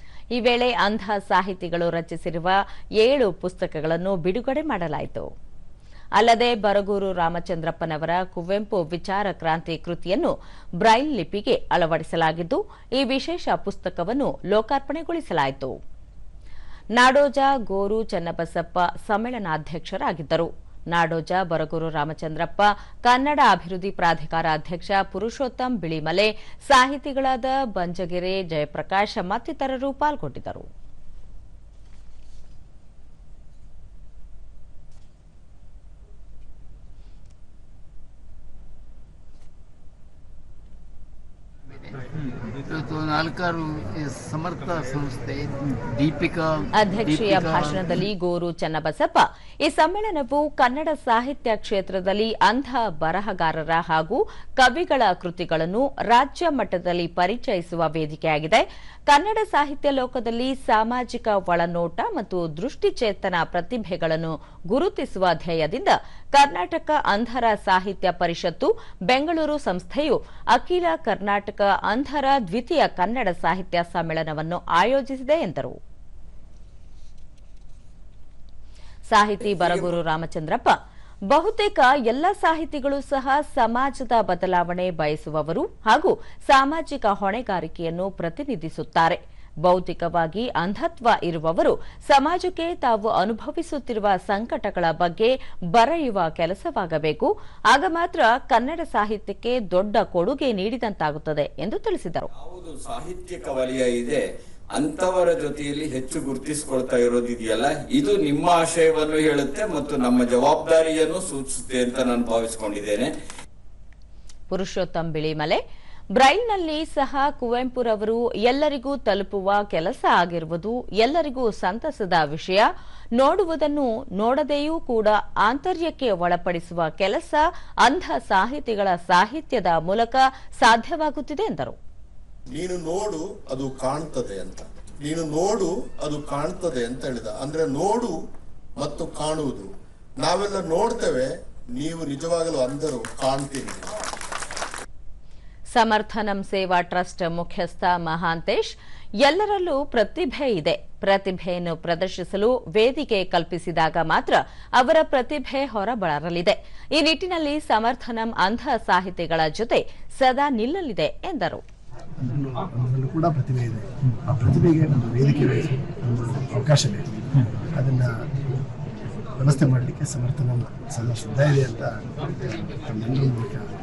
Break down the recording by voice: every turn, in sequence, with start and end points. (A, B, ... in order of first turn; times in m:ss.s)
0:00.4-0:05.3 A
0:06.2-0:15.8 A
0:17.0-0:30.7 A
0:41.7-0:48.1 B
0:46.8-1:15.8 A
1:19.1-1:20.8 A
1:21.3-1:42.3 A
1:42.4-1:44.2 C
1:44.8-1:53.1 C
1:54.5-1:55.6 A
1:56.2-2:11.8 A
2:12.5-2:18.2 D
2:18.8-2:24.0 D
2:25.8-2:41.6 A
2:42.2-2:48.1 E
2:49.4-2:53.7 E